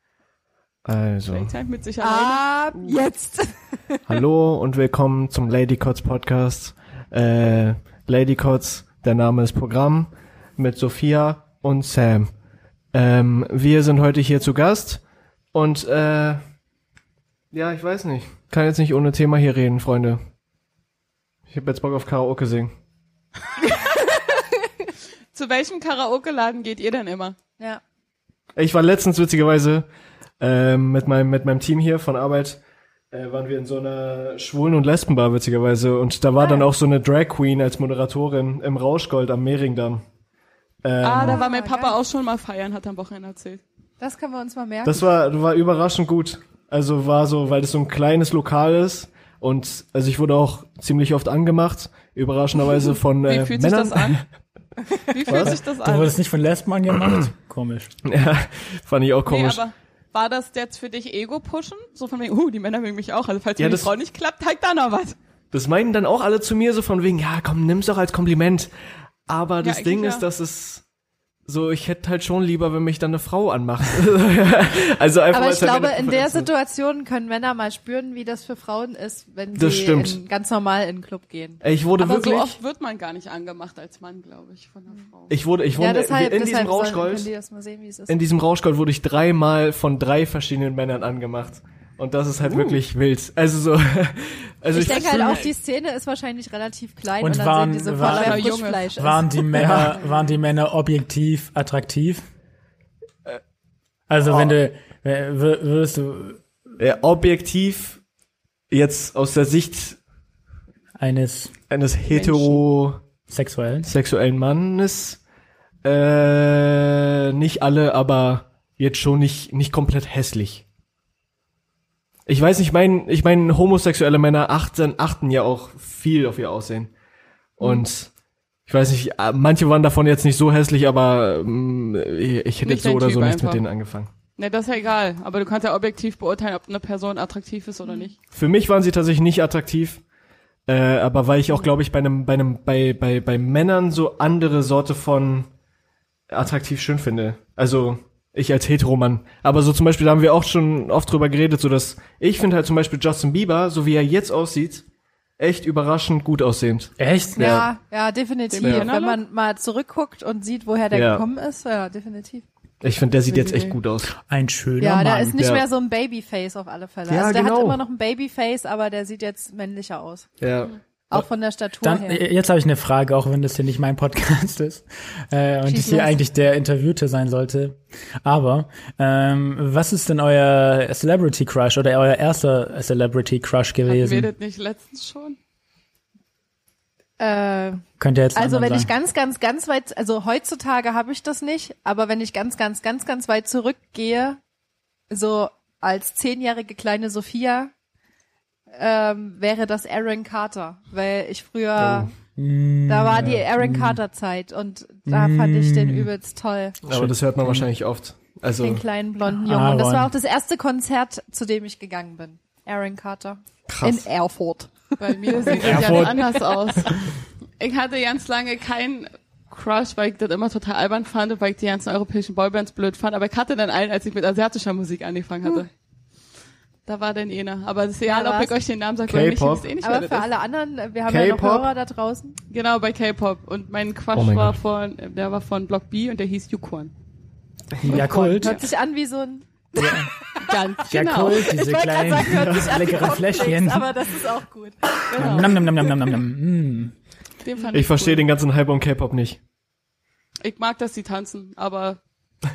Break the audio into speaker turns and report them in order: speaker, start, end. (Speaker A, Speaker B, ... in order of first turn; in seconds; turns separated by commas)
Speaker A: 0.8-1.5, Speaker B: 1.3-3.0, Speaker C: 2.0-4.0, Speaker A: 4.1-12.3, Speaker A: 12.9-15.0, Speaker A: 15.5-16.4, Speaker A: 17.5-20.2, Speaker A: 21.5-22.7, Speaker B: 25.3-27.4, Speaker A: 28.6-29.9, Speaker A: 30.4-32.6, Speaker A: 33.1-40.0, Speaker C: 36.4-36.7, Speaker A: 40.8-41.4, Speaker B: 41.0-43.6, Speaker C: 41.2-42.0, Speaker C: 44.0-45.1, Speaker A: 44.9-54.2, Speaker B: 53.2-54.2, Speaker B: 55.1-56.1, Speaker A: 55.3-55.6, Speaker D: 55.3-57.9, Speaker A: 58.0-59.6, Speaker B: 59.3-65.2, Speaker A: 63.6-63.9, Speaker A: 65.5-68.7, Speaker A: 69.3-70.8, Speaker B: 69.6-70.2, Speaker A: 71.5-76.5, Speaker C: 75.3-81.6, Speaker A: 79.5-80.2, Speaker A: 81.6-82.6, Speaker B: 82.0-85.4, Speaker A: 85.3-87.3, Speaker C: 85.8-88.2, Speaker A: 88.1-95.5, Speaker B: 92.4-92.8, Speaker C: 94.7-99.7, Speaker D: 97.2-102.2, Speaker B: 98.0-98.9, Speaker A: 99.5-100.0, Speaker D: 104.1-106.4, Speaker A: 104.2-104.5, Speaker A: 106.8-108.0, Speaker A: 108.7-110.0, Speaker D: 111.0-111.5, Speaker A: 111.7-113.0, Speaker B: 112.1-112.6, Speaker D: 113.3-113.9, Speaker A: 113.8-115.2, Speaker A: 115.8-120.6, Speaker A: 122.3-126.9, Speaker A: 127.6-128.1, Speaker A: 128.7-134.1, Speaker B: 132.6-133.6, Speaker B: 134.4-138.2, Speaker C: 137.9-138.1, Speaker A: 138.3-140.0, Speaker A: 140.7-145.5, Speaker A: 146.3-154.8, Speaker A: 155.4-157.7, Speaker D: 157.0-157.7, Speaker C: 157.4-162.4, Speaker B: 158.5-159.2, Speaker A: 158.6-158.9, Speaker A: 160.9-161.2, Speaker A: 162.8-164.1, Speaker B: 163.3-163.8, Speaker D: 164.2-165.4, Speaker C: 164.8-170.3, Speaker A: 165.4-165.7, Speaker A: 167.1-167.8, Speaker A: 170.4-170.7, Speaker C: 171.1-172.2, Speaker D: 171.8-184.3, Speaker C: 175.7-176.2, Speaker B: 183.9-185.4, Speaker C: 187.2-187.8, Speaker D: 188.0-188.9, Speaker C: 188.3-194.4, Speaker C: 195.1-197.7, Speaker C: 198.7-202.1, Speaker A: 201.8-202.1, Speaker D: 202.4-204.0, Speaker C: 202.9-206.8, Speaker D: 205.1-206.1, Speaker A: 206.8-208.8, Speaker D: 206.9-207.7, Speaker C: 208.6-216.3, Speaker D: 209.3-210.1, Speaker A: 213.7-214.1, Speaker B: 215.0-217.0, Speaker A: 215.6-216.3, Speaker D: 215.7-216.2, Speaker B: 217.6-225.7, Speaker B: 226.9-230.3, Speaker C: 228.1-228.5, Speaker A: 229.1-229.7, Speaker C: 229.8-232.4, Speaker A: 231.1-231.7, Speaker B: 232.5-236.9, Speaker A: 234.1-234.6, Speaker D: 237.8-238.6, Speaker C: 237.9-245.9, Speaker D: 239.8-240.1, Speaker B: 240.4-241.4, Speaker D: 240.9-244.0, Speaker B: 245.1-245.6, Speaker D: 245.2-246.9, Speaker B: 247.4-248.2, Speaker A: 247.7-249.4, Speaker B: 250.4-252.0